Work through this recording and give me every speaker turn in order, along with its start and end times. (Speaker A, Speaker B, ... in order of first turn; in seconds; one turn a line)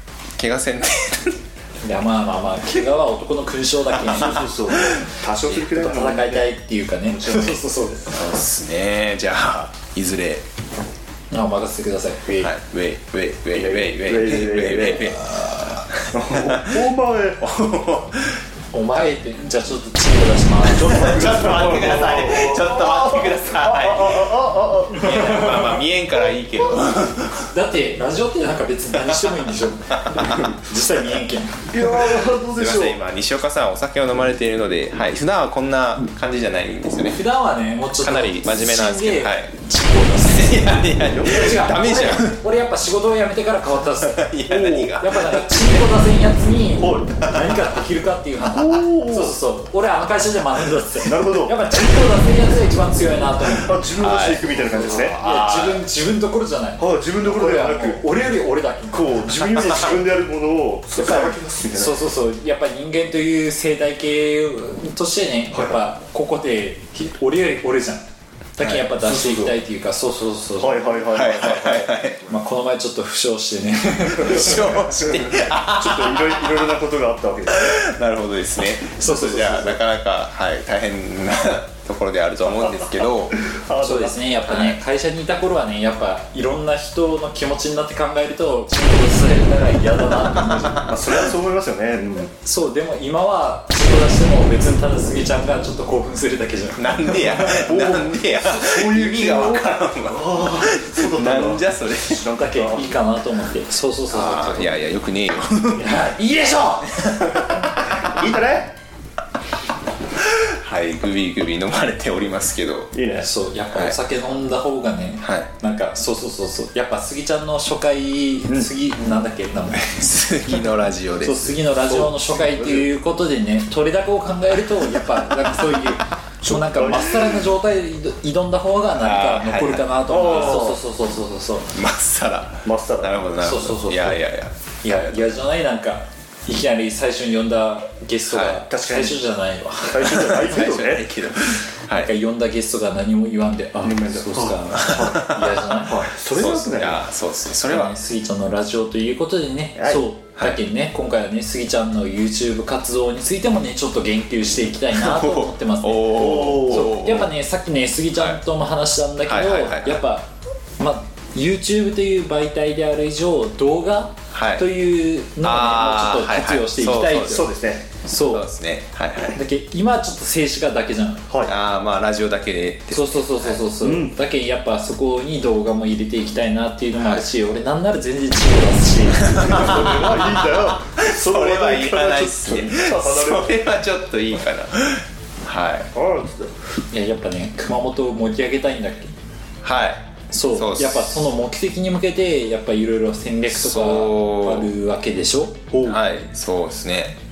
Speaker A: 0.4-1.4
Speaker B: 1.8-4.4
Speaker C: 4.0-6.5
Speaker B: 5.7-8.4
Speaker C: 7.1-7.6
Speaker A: 8.1-10.4
Speaker B: 11.3-12.5
Speaker A: 12.3-16.8
Speaker C: 13.5-15.2
Speaker C: 16.1-17.4
Speaker A: 17.4-18.4
Speaker B: 18.7-21.1
Speaker C: 20.7-25.3
Speaker A: 20.9-27.5
Speaker B: 25.0-25.7
Speaker B: 27.5-31.7
Speaker A: 29.0-29.4
Speaker A: 30.1-30.4
Speaker C: 31.7-33.0
Speaker A: 31.8-37.2
Speaker B: 37.1-40.7
Speaker A: 38.0-39.6
Speaker A: 40.1-42.4
Speaker C: 41.1-41.5
Speaker B: 41.2-44.2
Speaker A: 44.1-45.8
Speaker C: 44.5-45.0
Speaker B: 45.0-53.8
Speaker C: 46.8-47.1
Speaker A: 47.2-47.6
Speaker C: 48.5-49.4
Speaker C: 51.0-51.5
Speaker C: 53.5-55.2
Speaker A: 54.0-55.8
Speaker B: 54.6-60.0
Speaker C: 56.8-58.0
Speaker C: 58.9-62.0
Speaker B: 61.0-68.0
Speaker C: 65.5-65.8
Speaker B: 68.6-74.8
Speaker C: 69.0-69.6
Speaker C: 70.6-71.6
Speaker A: 71.1-72.2
Speaker A: 74.2-76.4
Speaker C: 75.7-77.8
Speaker A: 77.5-83.4
Speaker B: 78.8-79.8
Speaker C: 83.4-84.2
Speaker B: 83.8-90.9
Speaker A: 84.5-84.8
Speaker A: 90.3-90.9
Speaker C: 90.8-92.3
Speaker B: 92.4-97.7
Speaker A: 96.8-102.2
Speaker C: 97.6-103.0
Speaker B: 102.3-104.8
Speaker A: 104.1-105.9
Speaker B: 105.7-107.0
Speaker A: 107.0-107.8
Speaker C: 108.0-108.7
Speaker A: 110.4-112.9
Speaker C: 112.9-113.3
Speaker B: 113.2-120.1
Speaker A: 115.2-115.5
Speaker A: 119.9-121.6
Speaker B: 121.2-131.7
Speaker C: 121.8-122.9
Speaker C: 126.4-127.4
Speaker A: 129.0-130.7
Speaker C: 130.1-130.8
Speaker A: 131.7-135.3
Speaker C: 132.6-133.2
Speaker B: 133.4-134.2
Speaker B: 134.8-140.3
Speaker A: 138.3-138.6
Speaker C: 138.7-139.2
Speaker C: 139.9-141.1
Speaker A: 140.1-142.1
Speaker B: 141.9-146.1
Speaker C: 143.8-145.3
Speaker A: 144.7-145.6
Speaker C: 145.8-147.0
Speaker A: 146.3-147.9
Speaker B: 147.7-167.5
Speaker C: 149.8-150.0
Speaker A: 154.9-157.3
Speaker C: 156.2-156.9
Speaker A: 158.1-158.4
Speaker A: 159.3-160.0
Speaker A: 164.3-164.7
Speaker A: 165.4-167.5
Speaker C: 167.3-167.9
Speaker B: 168.0-168.5
Speaker A: 168.2-169.4
Speaker B: 169.3-171.3
Speaker C: 171.3-171.5
Speaker A: 171.4-173.6
Speaker B: 172.9-179.9
Speaker C: 173.8-174.2
Speaker A: 179.3-185.9
Speaker C: 179.4-183.5
Speaker C: 185.9-186.5
Speaker B: 186.9-189.1
Speaker A: 189.6-191.3
Speaker B: 190.3-195.7
Speaker A: 193.5-194.7
Speaker C: 195.7-196.0
Speaker A: 195.8-197.2